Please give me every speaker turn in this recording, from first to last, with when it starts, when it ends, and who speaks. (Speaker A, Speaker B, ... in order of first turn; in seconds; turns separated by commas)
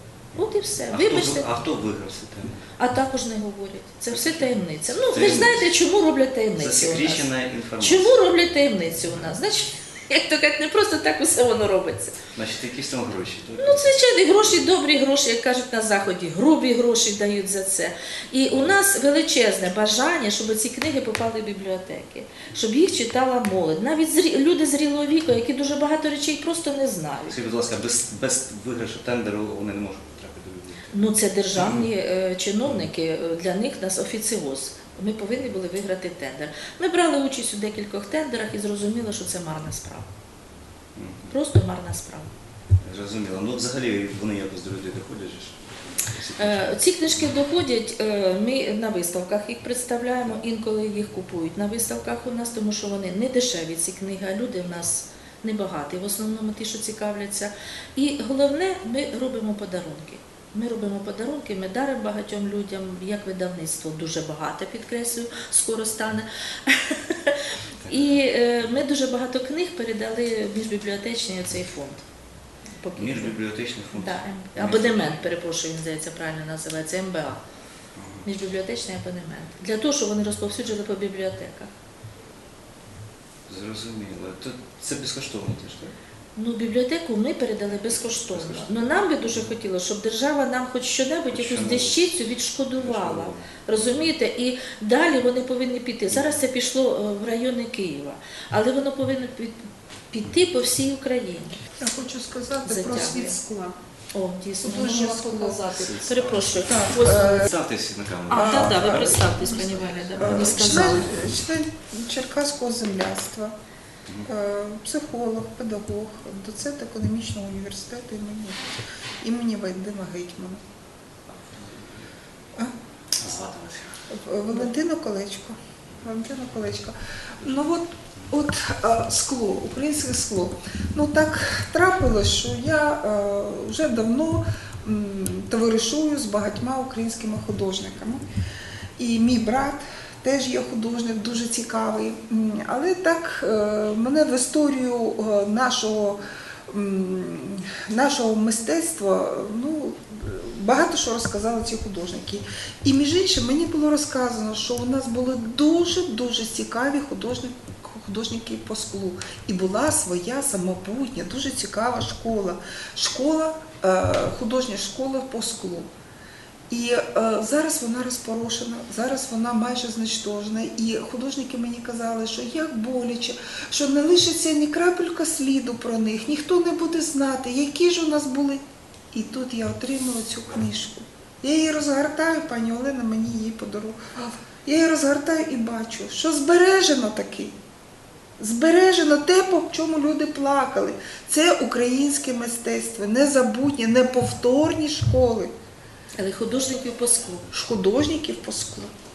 Speaker A: 0.4-1.6, Speaker B: 0.9-2.6, Speaker A: 2.8-12.2, Speaker B: 4.1-4.5, Speaker B: 5.0-5.7, Speaker B: 6.6-8.1, Speaker B: 12.3-13.9, Speaker A: 13.6-27.4, Speaker B: 27.3-30.9, Speaker A: 30.9-40.1, Speaker B: 41.0-41.3, Speaker A: 41.3-42.3, Speaker B: 42.8-45.5, Speaker B: 46.1-46.9, Speaker A: 46.4-72.0, Speaker A: 72.8-73.3, Speaker B: 73.0-75.1, Speaker A: 73.9-77.4, Speaker B: 78.0-78.2, Speaker A: 78.2-81.7, Speaker B: 83.5-85.9, Speaker A: 86.3-99.5, Speaker B: 88.2-89.1, Speaker B: 91.3-94.1, Speaker A: 100.1-101.6, Speaker C: 101.8-103.8, Speaker A: 102.6-103.3, Speaker A: 104.1-107.5, Speaker C: 104.6-107.5, Speaker B: 107.2-109.5, Speaker A: 108.3-111.2, Speaker C: 108.3-109.5, Speaker B: 110.1-111.2, Speaker C: 110.2-113.5, Speaker C: 114.2-118.6, Speaker C: 119.2-120.6, Speaker B: 121.5-121.7, Speaker B: 123.2-124.0, Speaker C: 124.1-138.2, Speaker C: 139.0-146.2, Speaker C: 146.7-165.9, Speaker C: 166.7-178.6, Speaker C: 179.1-187.5, Speaker C: 188.4-195.5, Speaker A: 196.2-197.5, Speaker C: 197.5-198.9